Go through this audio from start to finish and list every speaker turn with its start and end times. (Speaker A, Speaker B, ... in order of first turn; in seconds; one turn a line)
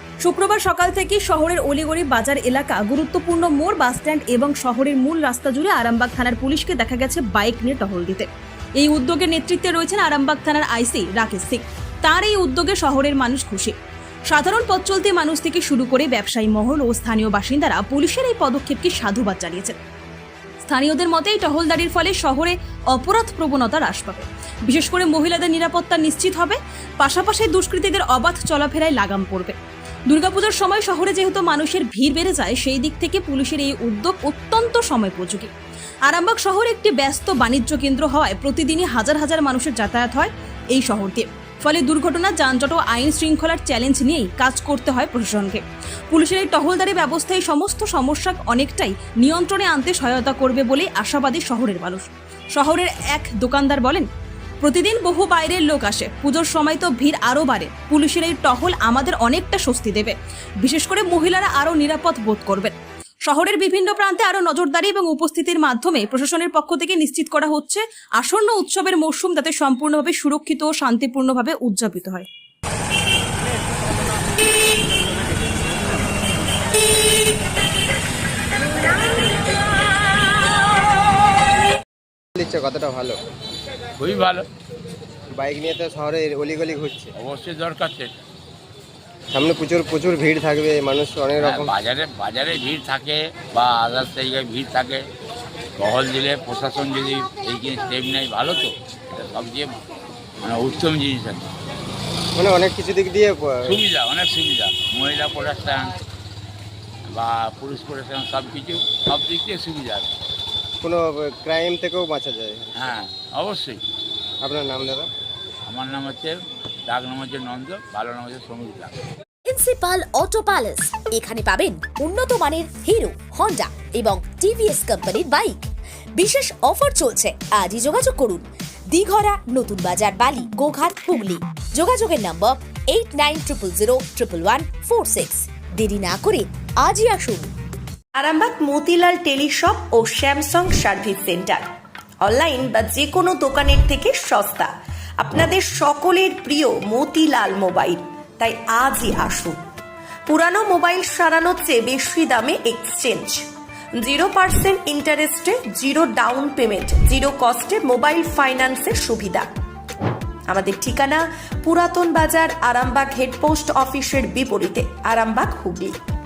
Speaker A: 0.2-8.3
Speaker A: 8.8-13.8
Speaker A: 14.3-19.8
Speaker A: 20.6-29.6
Speaker A: 30.1-35.5
Speaker A: 36.0-54.0
Speaker A: 54.6-62.7
Speaker A: 63.3-72.3
Speaker B: 82.3-83.2
Speaker C: 84.0-84.4
Speaker B: 85.3-87.1
Speaker C: 87.2-88.1
Speaker B: 89.3-91.7
Speaker C: 91.4-95.0
Speaker C: 95.8-99.8
Speaker C: 100.4-101.5
Speaker B: 102.3-103.8
Speaker C: 103.7-105.9
Speaker C: 107.1-110.1
Speaker B: 110.8-112.7
Speaker C: 112.8-113.8
Speaker B: 114.4-115.1
Speaker C: 115.7-116.4
Speaker C: 116.9-119.0
Speaker D: 119.5-137.5
Speaker E: 138.2-141.7
Speaker E: 142.2-149.6
Speaker E: 150.3-153.4
Speaker E: 154.0-159.5
Speaker E: 160.5-165.9